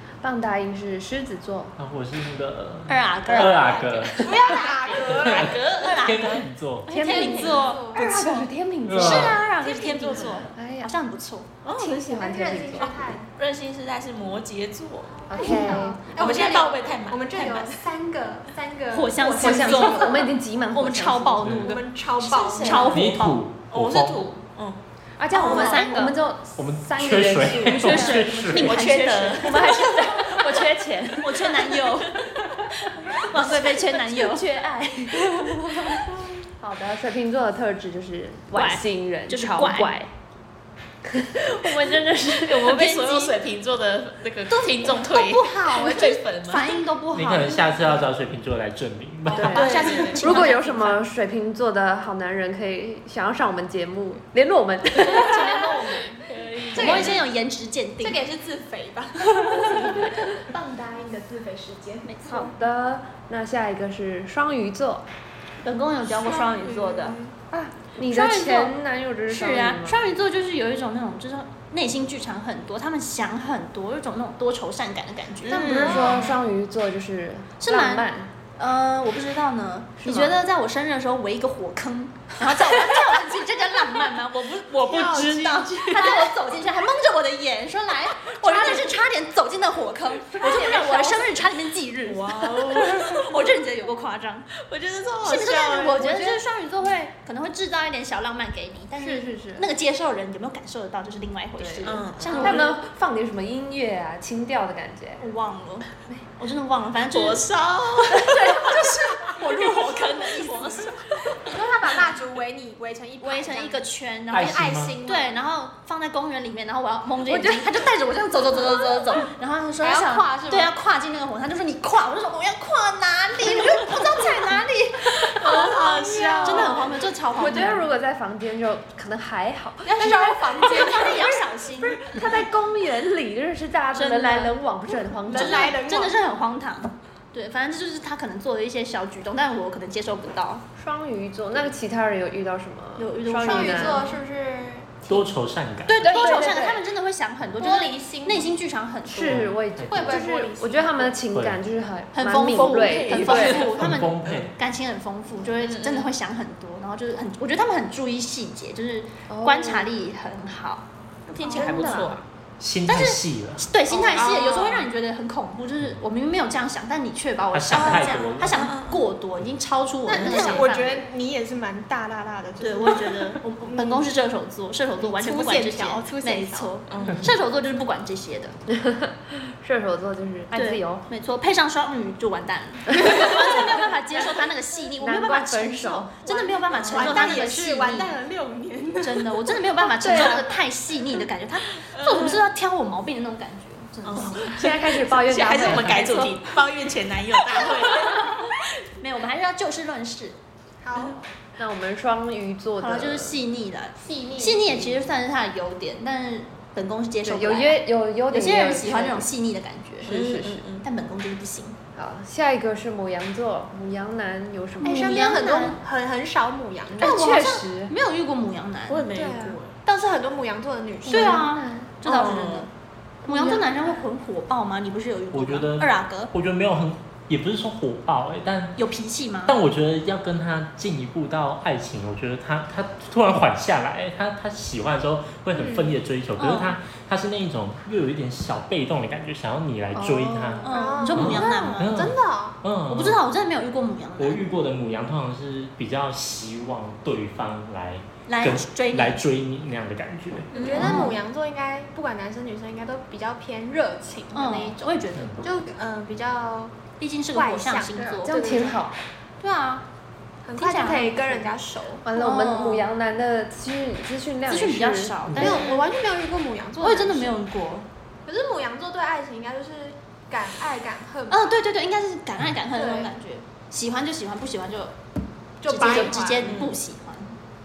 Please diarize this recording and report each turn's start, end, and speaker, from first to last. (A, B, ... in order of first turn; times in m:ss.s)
0:00.2-0:01.8 A
0:01.8-0:04.5 B
0:02.9-0:04.5 C
0:04.2-0:06.3 D
0:04.2-0:05.6 E
0:05.0-0:06.9 B
0:05.1-0:11.5 C
0:06.9-0:09.3 A
0:07.0-0:08.2 E
0:08.8-0:09.4 B
0:09.6-0:10.5 D
0:10.0-0:10.4 E
0:10.2-0:10.9 A
0:11.6-0:13.0 A
0:11.6-0:13.3 E
0:13.4-0:15.5 D
0:15.3-0:16.1 A
0:15.3-0:20.3 E
0:15.4-0:16.0 C
0:16.1-0:17.9 D
0:18.9-0:23.4 C
0:19.4-0:21.6 A
0:19.5-0:20.1 D
0:21.4-0:21.7 B
0:21.6-0:22.9 E
0:22.2-0:23.1 D
0:22.9-0:24.3 B
0:23.7-0:24.8 D
0:25.2-0:32.5 A
0:25.3-0:26.2 C
0:25.4-0:26.0 E
0:26.6-0:28.8 B
0:27.7-0:30.5 C
0:28.6-0:30.4 D
0:31.2-0:34.5 C
0:33.1-0:36.0 A
0:36.6-0:40.1 A
0:38.5-0:40.0 C
0:41.0-0:42.7 A
0:42.4-0:46.8 D
0:42.6-0:43.4 C
0:44.5-0:48.0 C
0:47.1-0:49.8 B
0:49.3-0:51.0 C
0:49.3-0:55.8 A
0:49.4-0:50.5 D
0:55.0-0:57.2 E
0:55.1-0:55.8 C
0:56.4-0:57.1 D
0:56.7-0:58.2 C
0:56.8-0:57.1 A
0:58.0-1:02.4 E
0:59.7-1:00.2 A
1:02.0-1:02.5 C
1:02.3-1:05.0 A
1:05.6-1:07.2 C
1:06.1-1:07.3 E
1:07.5-1:10.0 A
1:08.0-1:08.7 C
1:09.3-1:16.2 C
1:15.4-1:16.3 D
1:15.5-1:18.3 A
1:15.5-1:16.4 E
1:17.6-1:34.5 C
1:20.0-1:20.3 A
1:22.5-1:23.2 D
1:23.9-1:26.3 D
1:28.6-1:28.8 D
1:30.4-1:31.2 A
1:30.4-1:31.2 D
1:32.0-1:33.5 D
1:34.6-1:36.2 D
1:35.2-1:42.8 C
1:36.0-1:36.4 A
1:39.0-1:39.6 A
1:41.6-1:45.2 A
1:41.8-1:42.7 D
1:42.3-1:42.7 E
1:45.2-1:47.5 C
1:47.1-1:48.9 D
1:48.1-1:49.0 A
1:48.7-1:51.1 C
1:49.1-1:50.8 E
1:49.6-1:50.7 D
1:51.4-1:55.4 E
1:53.2-2:05.8 C
1:54.3-1:55.0 B
1:57.3-1:57.7 A
1:59.8-2:00.7 E
2:04.1-2:04.4 E
2:05.4-2:07.6 E
2:05.4-2:06.9 D
2:06.4-2:07.9 C
2:07.4-2:11.0 A
2:09.8-2:11.5 E
2:10.6-2:12.4 C
2:12.0-2:15.8 A
2:13.9-2:14.6 C
2:15.2-2:20.6 C
2:15.3-2:16.2 E
2:20.8-2:24.1 A
2:23.0-2:24.2 C
2:23.4-2:25.4 E
2:25.1-2:26.3 B
2:25.9-2:29.4 C
2:26.0-2:26.8 A
2:27.6-2:28.5 E
2:29.0-2:33.7 A
2:29.2-2:30.2 B
2:29.9-2:31.2 E
2:31.3-2:31.6 B
2:32.1-2:40.8 C
2:32.5-2:34.5 D
2:33.8-2:34.5 B
2:35.6-2:36.1 D
2:39.3-2:39.9 A
2:41.3-2:42.2 D
2:41.4-2:42.0 E
2:41.5-2:42.2 A
2:42.6-2:43.7 B
2:42.9-2:51.0 C
2:44.0-2:44.9 D
2:47.5-2:48.6 B
2:47.7-2:49.0 D
2:50.0-2:54.1 E
2:50.2-2:50.7 D
2:52.6-2:58.5 C
2:55.0-2:56.8 E
2:56.9-2:57.3 D
2:58.7-3:01.0 A
3:00.5-3:08.1 C
3:02.9-3:06.2 A
3:06.2-3:10.4 E
3:09.0-3:14.6 C
3:09.9-3:10.6 A
3:11.8-3:12.4 D
3:14.0-3:18.6 D
3:14.3-3:16.0 A
3:15.6-3:16.4 C
3:17.6-3:20.4 C
3:20.8-3:21.3 E
3:21.6-3:23.4 A
3:22.8-3:30.2 C
3:24.0-3:25.0 E
3:27.2-3:29.3 A
3:30.0-3:30.6 A
3:30.0-3:30.9 D
3:30.8-3:31.8 C
3:32.0-3:35.5 A
3:34.8-3:37.2 E
3:34.8-3:35.8 C
3:37.0-3:37.9 A
3:37.0-3:39.1 C
3:38.9-3:39.8 D
3:39.1-3:41.5 E
3:41.0-3:41.9 A
3:41.1-3:42.7 C
3:42.0-3:42.7 D
3:43.3-3:43.7 A
3:43.3-3:46.3 C
3:45.3-3:48.8 B
3:48.8-3:49.6 C
3:49.4-4:03.2 B
3:55.5-3:55.9 E
3:56.4-3:56.8 C
3:59.9-4:01.8 A
4:00.6-4:01.8 C
4:00.6-4:02.6 E
4:02.9-4:04.4 C
4:04.2-4:11.1 B
4:08.3-4:09.2 C
4:10.5-4:11.0 D
4:10.5-4:14.8 E
4:10.7-4:11.2 C
4:14.3-4:15.6 C
4:15.1-4:15.4 B
4:15.4-4:16.8 E
4:17.0-4:18.7 C
4:17.3-4:18.8 E
4:18.2-4:18.9 A
4:19.4-4:19.8 C
4:20.4-4:22.0 E
4:20.6-4:21.5 C
4:22.0-4:25.2 A
4:22.1-4:22.9 C
4:24.5-4:25.8 C
4:25.2-4:25.6 B
4:25.4-4:27.4 E
4:26.8-4:27.9 C
4:28.2-4:31.5 E
4:31.3-4:34.9 C
4:32.7-4:33.1 E
4:35.6-4:36.6 E
4:35.6-4:37.4 C
4:35.8-4:36.1 A
4:36.4-4:36.8 D